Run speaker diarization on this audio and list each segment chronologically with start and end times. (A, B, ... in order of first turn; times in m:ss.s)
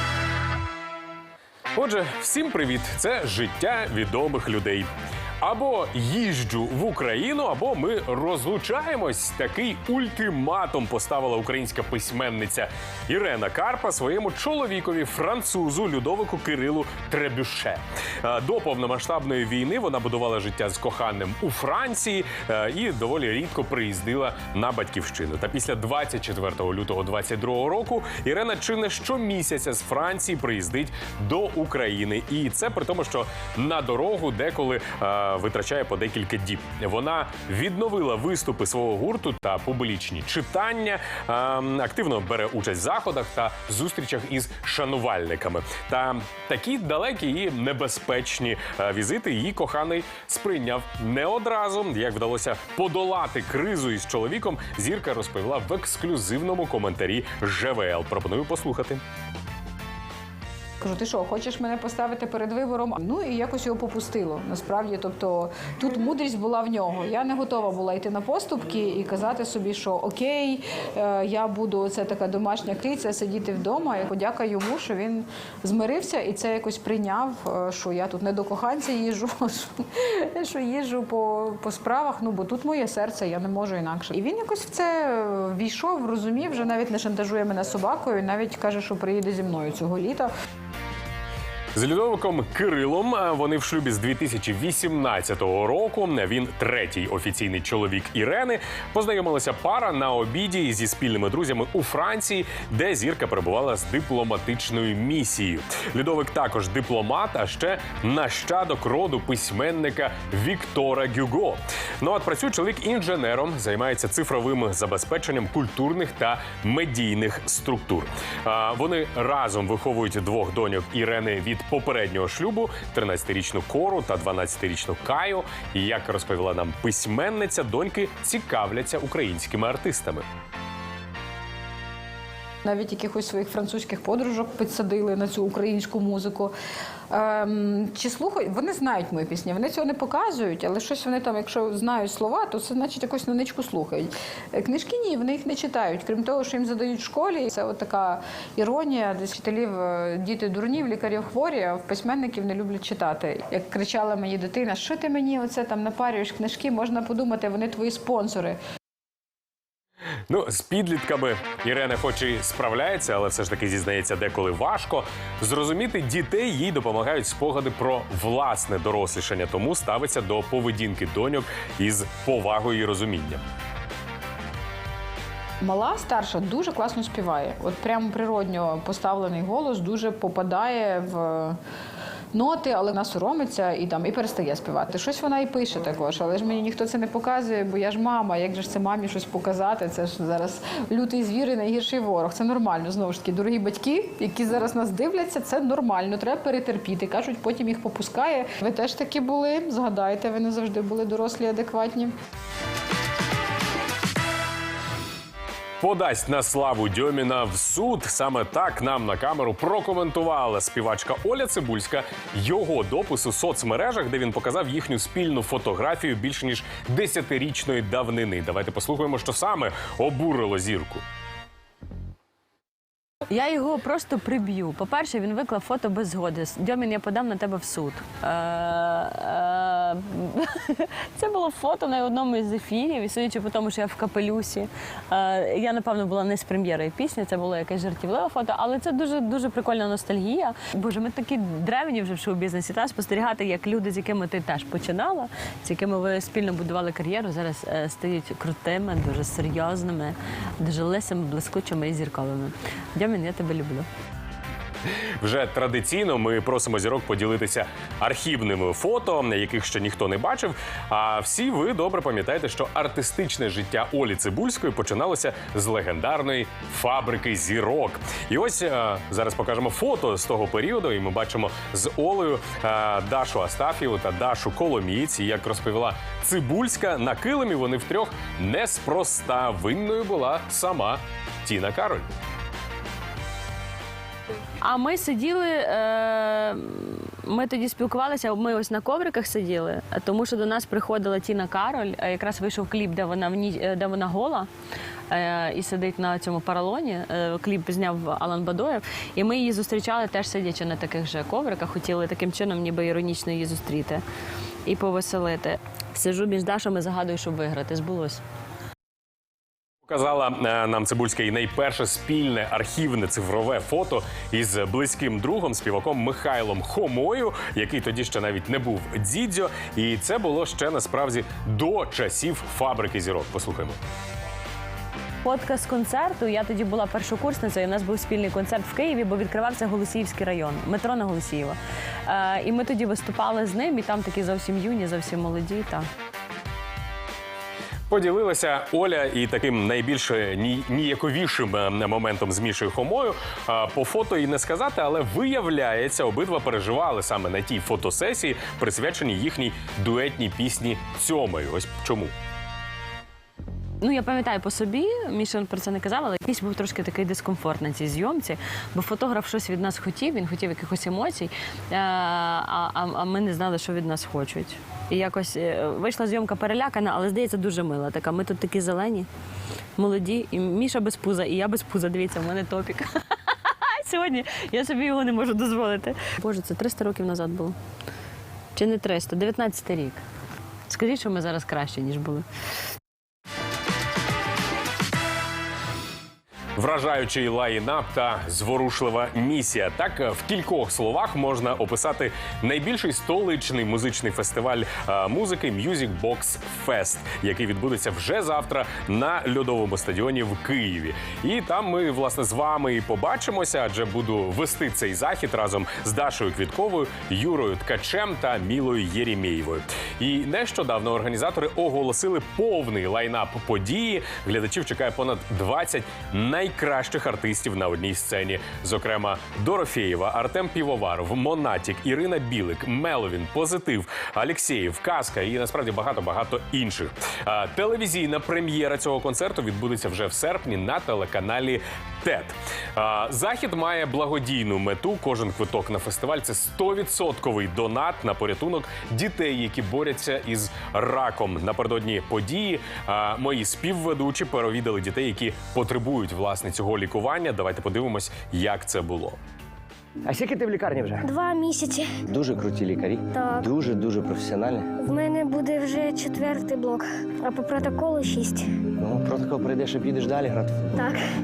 0:01.7-0:04.9 A
0:05.4-0:59.0 A
1:00.8-1:30.3 B
1:31.8-2:10.2 A
2:12.6-2:16.5 B
2:17.1-2:38.6 B
2:40.3-2:53.4 A
2:55.6-3:01.6 B
3:02.3-3:22.1 B
3:25.8-3:41.0 A
3:43.3-4:13.9 C
4:15.2-4:42.1 A
4:44.6-4:54.5 C
4:55.1-5:04.0 C
5:04.7-5:08.2 C
5:09.9-5:23.8 A
5:25.2-5:35.8 C
5:37.9-5:52.1 A
5:53.8-6:09.1 C
6:09.8-6:17.6 C
6:18.6-6:20.0 C
6:20.7-6:22.2 C
6:26.6-7:29.2 A
7:30.1-7:31.1 D
7:31.0-7:32.0 E
7:32.1-7:34.7 D
7:33.1-7:33.5 E
7:34.8-7:38.6 E
7:38.8-7:40.9 D
7:40.7-7:41.0 E